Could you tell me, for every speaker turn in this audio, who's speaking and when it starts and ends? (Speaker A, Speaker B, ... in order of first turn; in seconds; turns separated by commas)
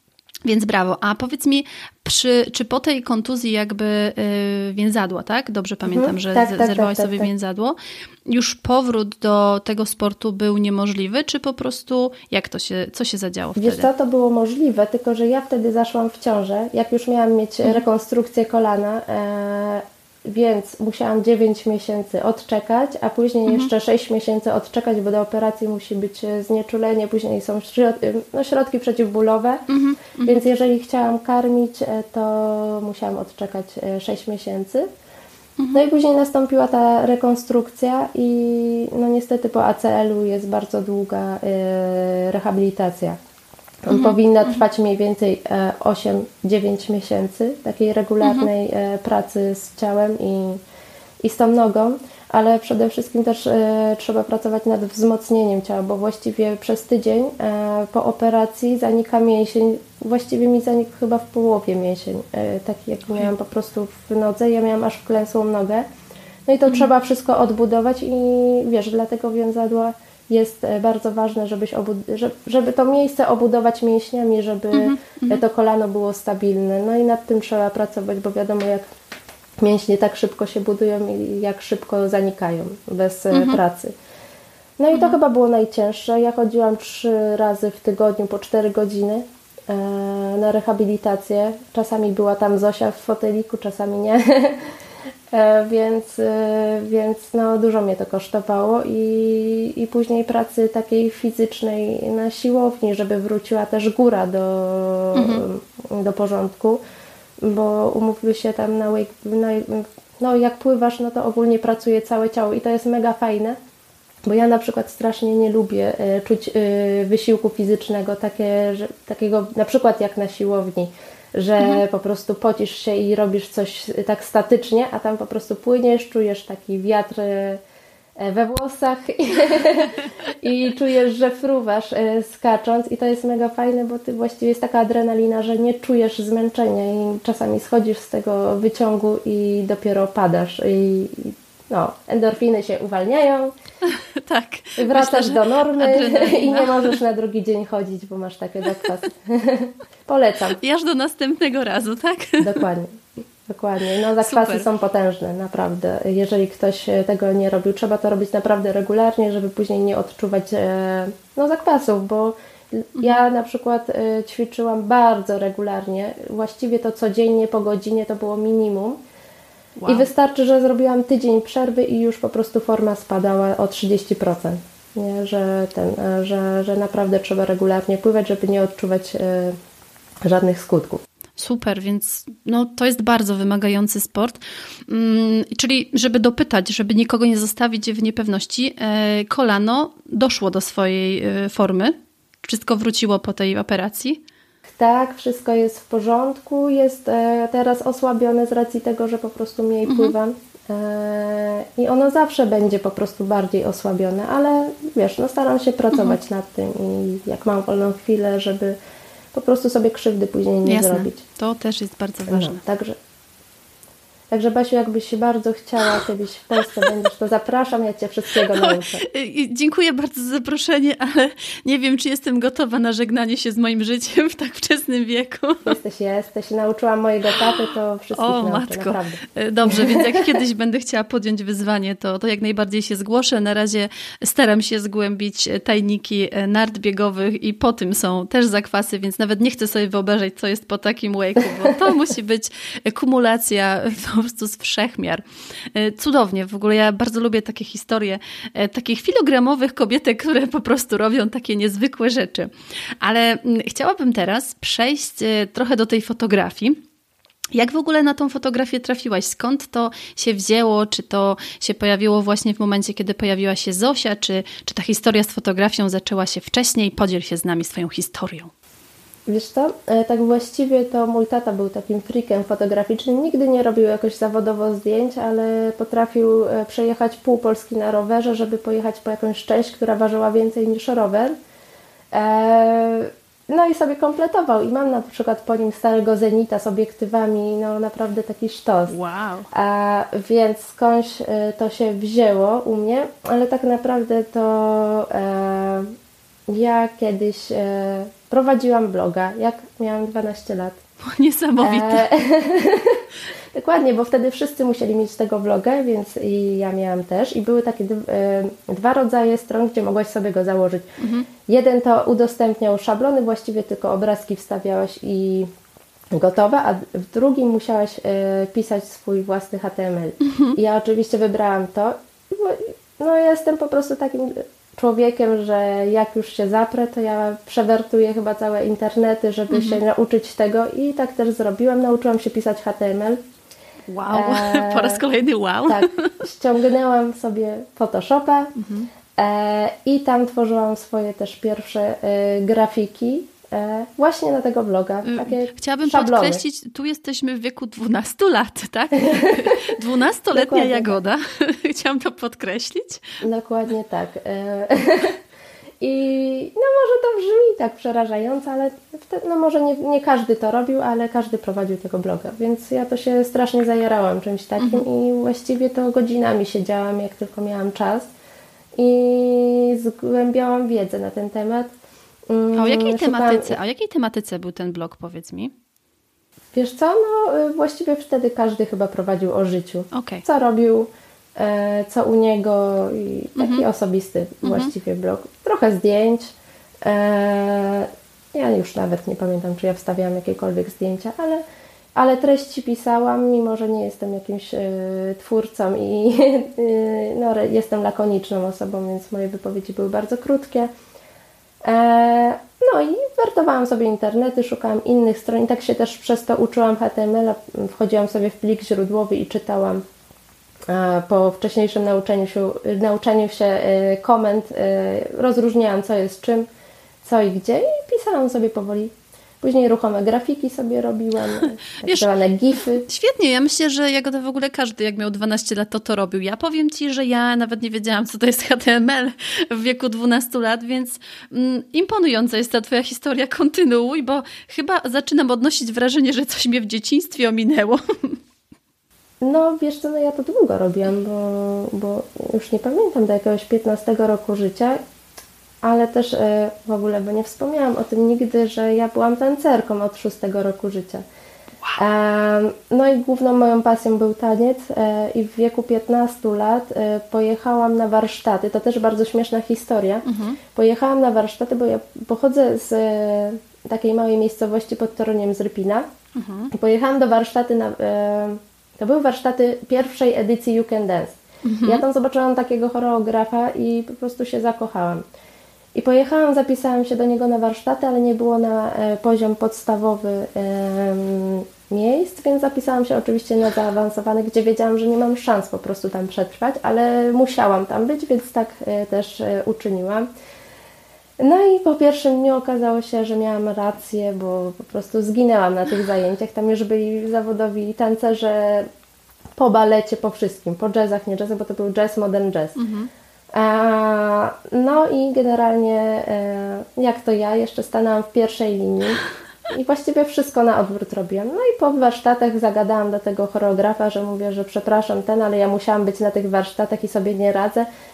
Speaker A: 0.5-13.9, Speaker B: 5.9-7.3, Speaker B: 13.6-29.7, Speaker A: 29.7-30.4, Speaker B: 30.2-34.9, Speaker B: 35.7-43.2, Speaker B: 43.9-50.6, Speaker A: 43.9-44.5, Speaker A: 48.2-48.5, Speaker B: 51.2-65.8, Speaker B: 66.5-78.8, Speaker A: 74.7-75.4, Speaker B: 79.6-83.9, Speaker A: 83.3-83.6, Speaker B: 84.8-94.8, Speaker B: 95.3-106.8, Speaker A: 105.2-105.5, Speaker B: 107.4-113.6, Speaker B: 114.2-127.6, Speaker B: 128.2-143.5, Speaker A: 143.8-147.0, Speaker B: 144.8-150.6, Speaker A: 150.6-152.6, Speaker B: 152.4-169.0, Speaker A: 154.2-154.7, Speaker A: 169.8-170.1, Speaker B: 169.9-179.6, Speaker B: 180.2-181.0, Speaker A: 181.4-194.2, Speaker B: 194.7-208.8, Speaker A: 199.9-200.1, Speaker B: 209.3-211.2, Speaker A: 210.7-212.6, Speaker B: 212.3-213.0, Speaker B: 214.3-219.1, Speaker A: 218.5-225.8, Speaker B: 225.6-230.3, Speaker A: 228.2-256.8, Speaker A: 257.5-268.5, Speaker B: 269.3-281.3, Speaker B: 282.1-289.0, Speaker A: 288.9-289.5, Speaker B: 289.5-295.9, Speaker B: 296.5-300.8, Speaker A: 301.0-302.1, Speaker B: 301.6-310.9, Speaker A: 311.0-311.3, Speaker B: 311.5-315.5, Speaker B: 316.1-333.2, Speaker A: 320.3-320.6, Speaker A: 329.5-329.8, Speaker A: 333.9-336.1, Speaker B: 334.1-335.0, Speaker B: 335.7-338.6, Speaker A: 338.6-338.9, Speaker B: 339.1-346.4, Speaker A: 345.1-353.1, Speaker B: 349.0-349.8, Speaker B: 350.3-351.0, Speaker B: 353.2-355.2, Speaker B: 355.8-368.1, Speaker A: 364.6-364.9, Speaker B: 368.8-371.7, Speaker B: 372.3-373.6, Speaker A: 372.6-375.5, Speaker B: 376.5-386.3, Speaker A: 379.9-380.2, Speaker A: 383.4-383.7, Speaker A: 384.4-384.7, Speaker B: 386.9-391.4, Speaker B: 392.0-400.7, Speaker B: 401.6-409.8, Speaker B: 410.7-416.5, Speaker B: 417.0-422.9, Speaker A: 421.8-422.1, Speaker A: 422.8-438.2, Speaker B: 439.2-444.8, Speaker B: 445.6-451.0, Speaker B: 451.8-465.9, Speaker A: 460.1-460.4, Speaker A: 466.1-466.5, Speaker B: 466.5-475.0, Speaker A: 471.4-471.8, Speaker B: 475.8-490.1, Speaker B: 491.2-498.7, Speaker B: 499.4-502.6, Speaker A: 502.6-502.9, Speaker B: 503.3-517.7